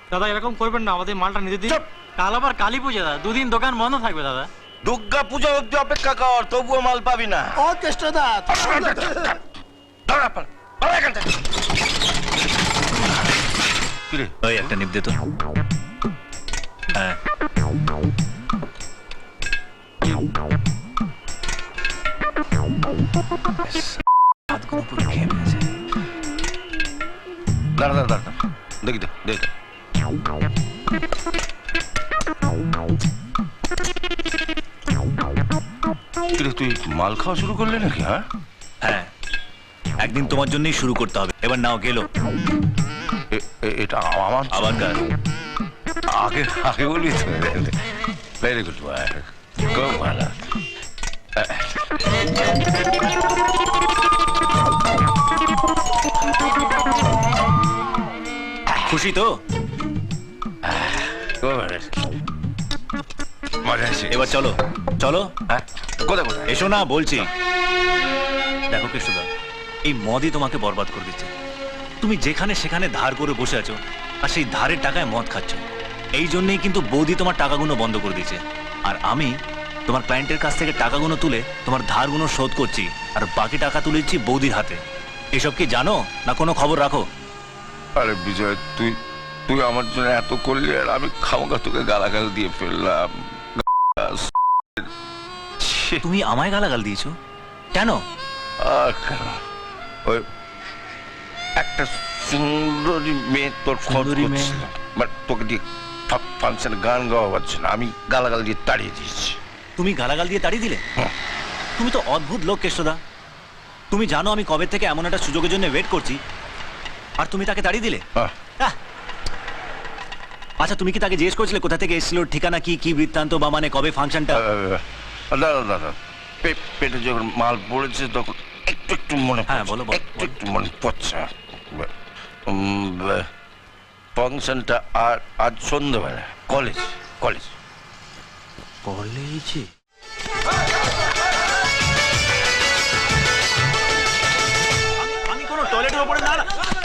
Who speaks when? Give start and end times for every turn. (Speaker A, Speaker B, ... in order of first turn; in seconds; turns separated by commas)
Speaker A: 0.1-4.5, Speaker B: 4.8-7.6, Speaker B: 8.5-9.2, Speaker B: 10.1-11.2, Speaker B: 14.1-14.7, Speaker C: 14.4-15.1, Speaker C: 16.9-17.2, Speaker C: 23.6-25.8, Speaker B: 27.8-29.5, Speaker B: 36.3-38.2, Speaker C: 38.8-39.1, Speaker C: 40.0-42.1, Speaker B: 43.3-45.0, Speaker C: 44.5-45.0, Speaker B: 46.1-47.7, Speaker B: 48.4-50.3, Speaker B: 51.4-51.8, Speaker C: 58.9-59.3, Speaker B: 60.6-62.2, Speaker B: 63.6-64.5, Speaker C: 64.1-65.3, Speaker B: 65.5-66.7, Speaker C: 66.5-67.3, Speaker C: 68.7-69.2, Speaker C: 69.8-71.3, Speaker C: 72.0-75.6, Speaker C: 76.2-79.3, Speaker C: 79.9-84.8, Speaker C: 85.3-87.0, Speaker B: 88.0-94.3, Speaker B: 95.6-96.0, Speaker C: 96.0-97.1, Speaker C: 97.7-98.0, Speaker B: 98.6-99.4, Speaker B: 101.6-109.4, Speaker C: 104.0-104.6, Speaker C: 109.8-110.8, Speaker C: 111.8-113.0, Speaker C: 113.9-116.2, Speaker C: 117.2-118.0, Speaker C: 120.6-124.4, Speaker B: 124.3-131.9, Speaker C: 129.5-130.4, Speaker B: 132.5-133.2, Speaker B: 134.2-137.6, Speaker C: 145.0-146.5